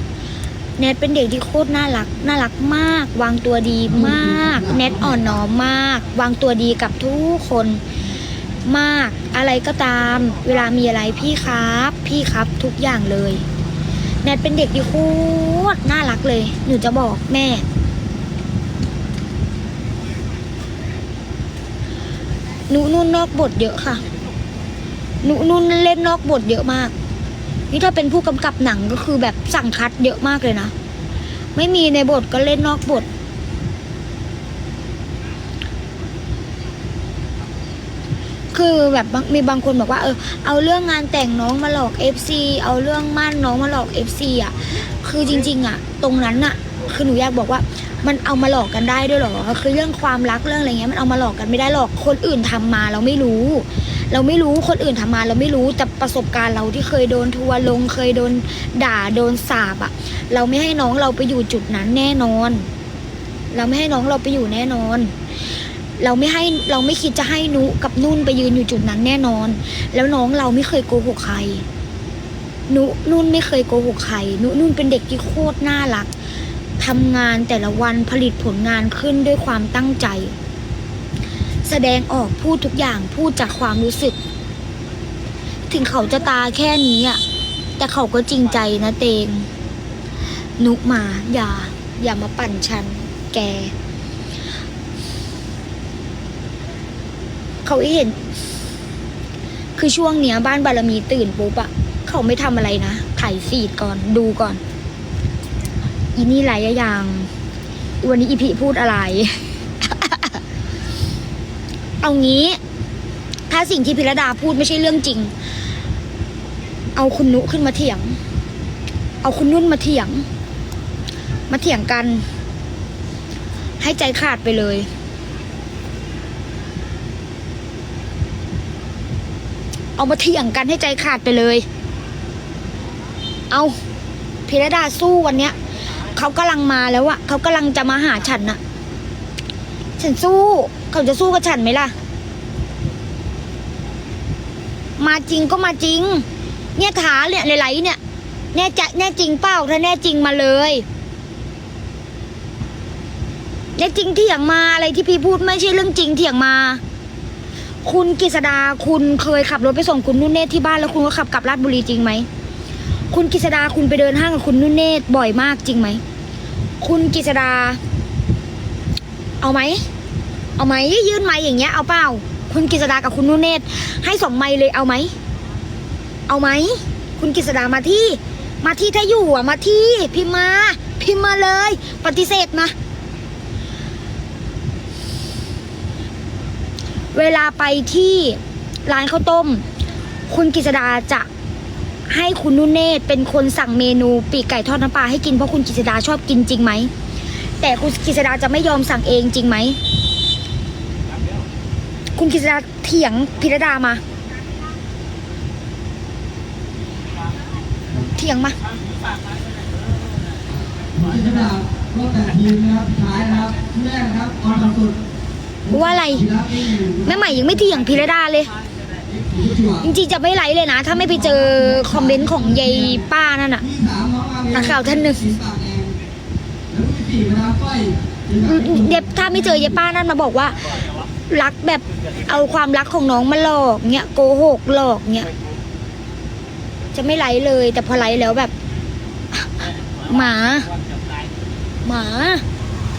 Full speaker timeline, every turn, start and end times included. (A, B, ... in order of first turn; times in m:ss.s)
0:00.8-0:07.8 A
0:03.9-0:05.4 B
0:08.6-0:13.4 A
0:14.2-0:17.7 A
0:22.7-0:24.0 A
0:25.2-0:26.9 A
0:27.7-0:30.7 A
0:31.6-0:33.1 A
0:38.5-1:02.7 A
1:03.5-1:05.1 A
1:06.0-1:11.6 A
1:12.7-1:16.1 A
1:16.8-1:20.4 A
1:21.6-1:24.2 A
1:25.7-1:27.2 A
1:27.8-1:29.5 A
1:30.6-1:33.7 A
1:37.6-1:38.3 A
1:39.8-1:44.6 A
1:46.2-1:47.3 A
1:48.0-1:50.4 A
1:52.0-1:52.6 A
1:53.5-1:55.3 A
1:57.0-1:58.2 A
1:59.2-2:00.3 A
2:01.5-2:02.3 A
2:03.8-2:04.9 A
2:10.0-2:11.7 A
2:13.5-2:13.8 A
2:14.5-2:15.6 A
2:16.1-2:18.6 A
2:20.0-2:21.9 A
2:25.0-2:26.2 A
2:26.8-2:28.0 A
2:28.5-2:30.8 A
2:33.8-2:36.8 A
2:37.8-2:42.3 A
2:43.1-2:46.0 A
2:46.8-2:47.8 A
2:49.4-2:49.8 A
2:50.6-2:55.1 A
2:56.3-3:02.7 A
3:07.1-3:09.6 A
3:10.3-3:11.3 A
3:12.1-3:16.9 A
3:17.6-3:19.8 A
3:22.2-3:24.0 A
3:28.1-3:28.6 A
3:30.5-3:35.0 B
3:35.7-3:37.6 B
3:35.7-3:36.3 A
3:36.9-3:38.5 A
3:39.1-3:39.9 B
3:39.8-3:43.6 A
3:41.0-3:43.0 B
3:43.6-3:46.0 B
3:44.5-3:45.2 A
3:46.7-3:49.6 B
3:48.4-3:50.6 A
3:51.3-3:55.3 A
3:56.9-3:58.5 A
4:00.0-4:00.7 A
4:01.8-4:02.4 A